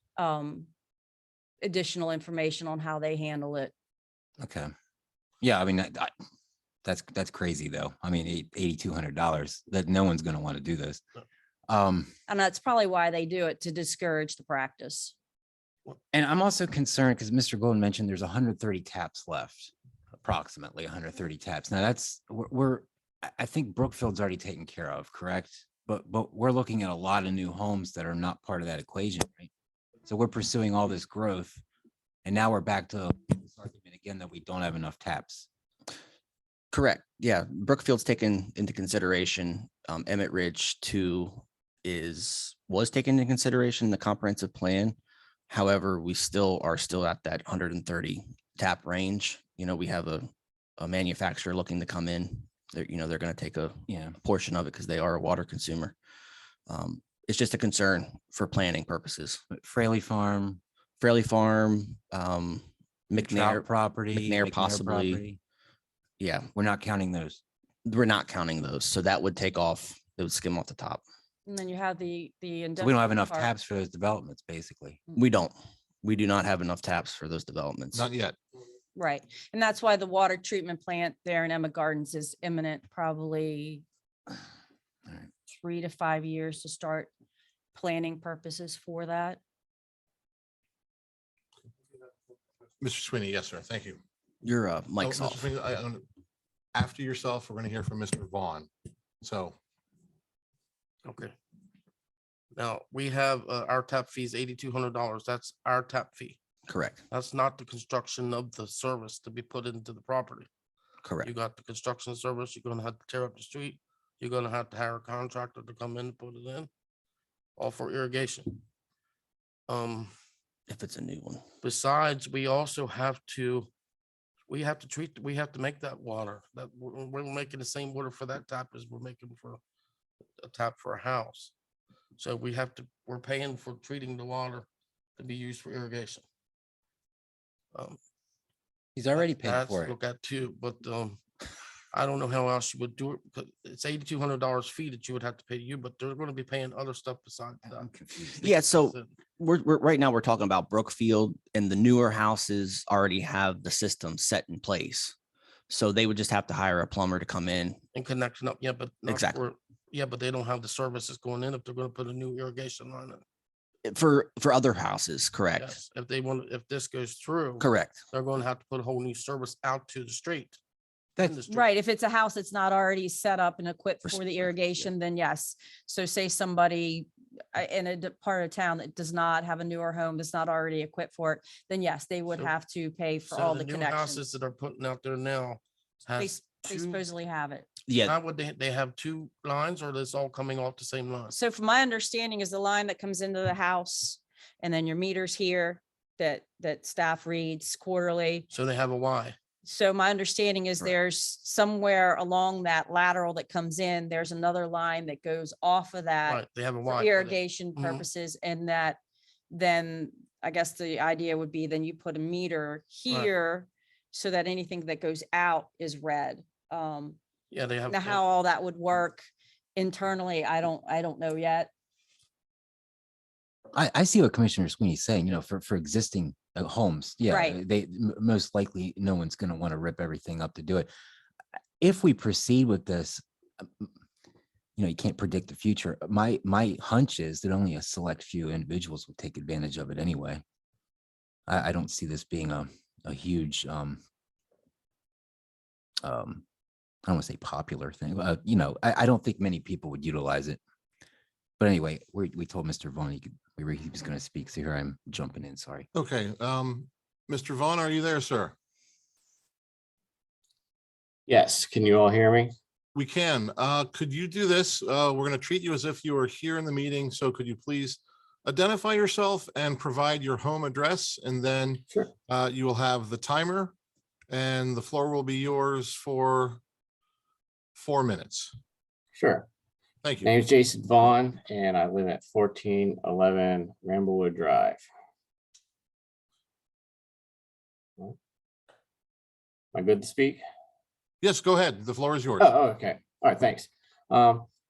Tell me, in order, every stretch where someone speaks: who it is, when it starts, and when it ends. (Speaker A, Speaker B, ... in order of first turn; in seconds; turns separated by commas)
Speaker A: 0.2-0.7, Speaker A: 1.6-3.7, Speaker B: 4.4-4.7, Speaker B: 5.4-6.1, Speaker B: 6.8-11.0, Speaker B: 11.7-12.1, Speaker A: 12.3-15.2, Speaker B: 16.1-19.7, Speaker B: 20.2-29.5, Speaker B: 30.1-31.6, Speaker B: 32.2-35.5, Speaker C: 36.7-45.0, Speaker C: 45.5-55.9, Speaker B: 53.9-54.2, Speaker C: 56.7-59.4, Speaker B: 59.5-60.6, Speaker C: 61.0-65.2, Speaker B: 63.2-65.4, Speaker C: 66.2-66.5, Speaker B: 66.5-67.4, Speaker C: 67.8-71.0, Speaker A: 71.5-73.5, Speaker B: 72.8-75.0, Speaker C: 75.2-78.1, Speaker D: 77.9-78.4, Speaker A: 79.0-83.8, Speaker A: 85.5-87.1, Speaker A: 87.8-89.4, Speaker D: 92.8-94.0, Speaker C: 94.4-95.5, Speaker D: 95.0-96.0, Speaker D: 96.7-98.7, Speaker D: 99.2-99.5, Speaker E: 101.0-101.4, Speaker E: 102.5-106.4, Speaker C: 106.7-107.0, Speaker E: 107.1-110.5, Speaker C: 111.0-111.3, Speaker E: 111.2-116.7, Speaker E: 117.6-118.6, Speaker E: 119.7-120.1, Speaker C: 120.7-121.5, Speaker E: 121.6-123.7, Speaker E: 124.5-129.6, Speaker E: 130.4-131.5, Speaker E: 132.2-136.2, Speaker E: 137.7-138.0, Speaker B: 139.0-139.9, Speaker E: 139.2-141.2, Speaker E: 141.9-149.1, Speaker B: 147.8-148.4, Speaker C: 148.4-155.1, Speaker C: 155.7-157.8, Speaker E: 157.9-163.2, Speaker C: 159.1-159.4, Speaker C: 163.9-165.8, Speaker E: 165.6-170.6, Speaker C: 167.6-168.0, Speaker E: 171.2-171.7, Speaker A: 171.5-184.2, Speaker E: 183.3-187.0, Speaker A: 186.2-187.7, Speaker C: 187.9-188.2, Speaker E: 188.0-191.3, Speaker A: 191.3-198.5, Speaker E: 198.5-199.4, Speaker A: 199.7-209.0, Speaker E: 206.3-208.1, Speaker A: 209.5-217.2, Speaker E: 217.5-218.2, Speaker A: 217.9-221.7, Speaker B: 223.7-230.9, Speaker A: 227.3-227.6, Speaker B: 231.8-233.9, Speaker B: 234.8-240.4, Speaker B: 241.5-244.0, Speaker B: 246.0-246.4, Speaker B: 247.1-250.6, Speaker B: 251.6-255.9, Speaker D: 255.9-258.6, Speaker F: 261.3-262.5, Speaker D: 262.9-273.7, Speaker D: 274.3-276.6, Speaker D: 277.8-278.5, Speaker F: 279.1-279.5, Speaker D: 280.0-280.3, Speaker F: 280.2-284.8, Speaker F: 289.7-290.4, Speaker D: 291.2-292.5, Speaker F: 292.4-294.5